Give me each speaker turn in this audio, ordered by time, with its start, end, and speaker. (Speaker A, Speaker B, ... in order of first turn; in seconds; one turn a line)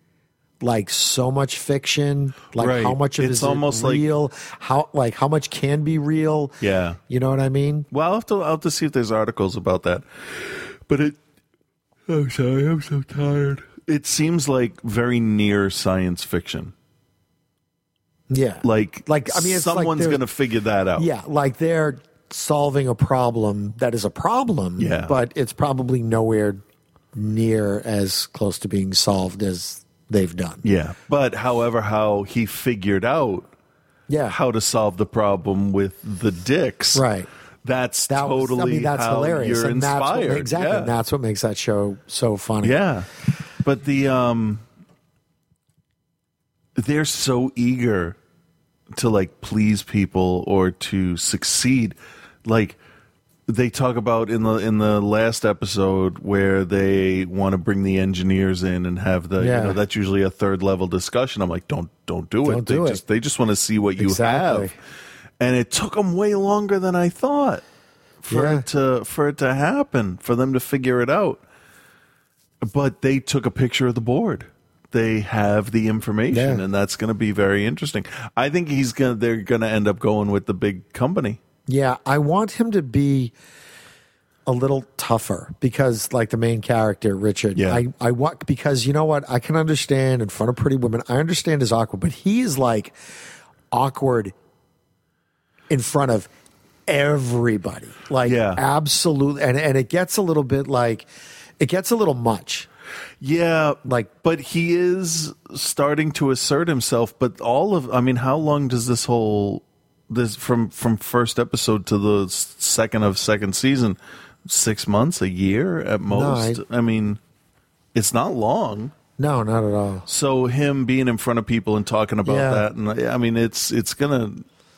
Speaker A: 0.6-6.6
Speaker B: 2.6-4.0
Speaker B: 6.6-7.0
Speaker A: 7.1-7.9
Speaker B: 7.9-11.2
Speaker B: 12.1-16.7
Speaker A: 18.3-20.2
Speaker B: 18.6-21.1
Speaker A: 20.9-26.6
Speaker B: 24.8-25.1
Speaker A: 27.1-30.6
Speaker B: 30.6-33.5
Speaker A: 34.1-34.4
Speaker B: 34.3-37.0
Speaker A: 36.9-37.3
Speaker B: 37.6-40.9
Speaker A: 38.1-42.8
Speaker B: 42.6-43.1
Speaker B: 43.6-44.6
Speaker B: 46.8-48.2
Speaker B: 48.9-52.8
Speaker B: 53.5-64.8
Speaker A: 59.4-59.8
Speaker A: 62.4-63.0
Speaker A: 64.0-64.7
Speaker B: 65.4-67.6
Speaker B: 68.2-71.4
Speaker A: 68.3-68.6
Speaker B: 72.6-81.4
Speaker A: 76.3-76.6
Speaker A: 81.7-83.3
Speaker A: 84.5-93.0
Speaker B: 87.5-87.8
Speaker A: 93.7-94.3
Speaker A: 95.7-96.3
Speaker A: 96.9-101.1
Speaker B: 98.2-98.6
Speaker A: 101.6-102.7
Speaker B: 103.2-117.2
Speaker A: 103.8-104.1
Speaker A: 116.1-116.6
Speaker B: 117.9-118.9
Speaker A: 119.2-120.1
Speaker B: 120.1-124.5
Speaker A: 122.2-122.7